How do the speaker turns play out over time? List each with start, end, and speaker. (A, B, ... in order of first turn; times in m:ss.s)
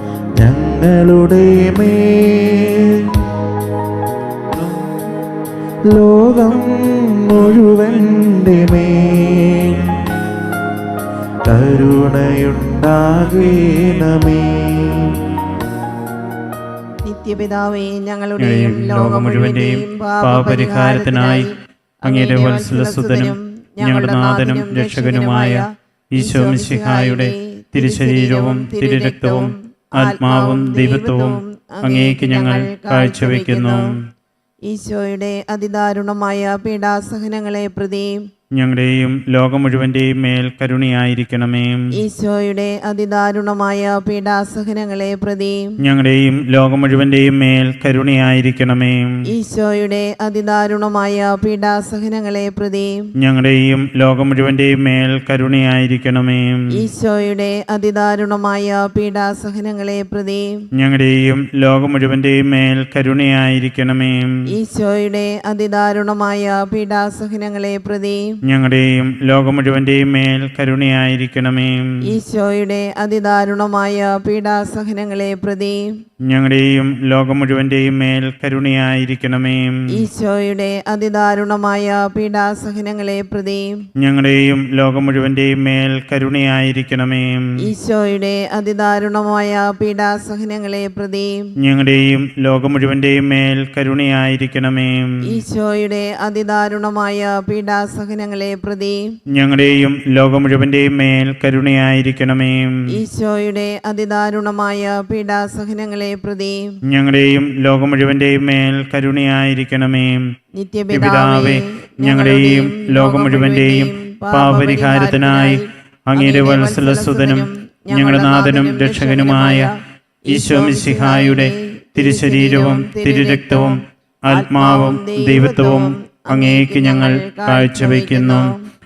0:00.4-0:03.2 A
0:05.9-0:10.0 A
0:11.4-0:15.2 A
0:17.0-0:21.5 B
0:18.4-0:21.5 C
0:22.0-0:34.0 C
0:22.0-0:25.6 B
0:26.2-0:33.8 B
0:34.7-0:38.2 B
0:38.6-0:42.0 C
0:42.0-0:45.7 B
0:45.8-0:49.2 C
0:49.3-0:53.0 B
0:53.2-0:56.8 C
0:56.7-1:00.5 B
1:00.7-1:04.4 C
1:04.5-1:08.3 B
1:08.4-1:12.0 C
1:12.0-1:15.9 B
1:16.2-1:19.9 C
1:19.9-1:23.8 B
1:24.0-1:27.6 C
1:27.6-1:31.4 B
1:31.6-1:35.3 C
1:35.2-1:39.1 B
1:39.3-1:42.9 C
1:42.9-1:46.7 B
1:46.9-1:50.3 C
1:50.6-1:55.6 B
1:50.9-1:59.7 C
1:56.2-1:59.7 B
2:00.3-2:08.5 C
2:00.3-2:08.6 B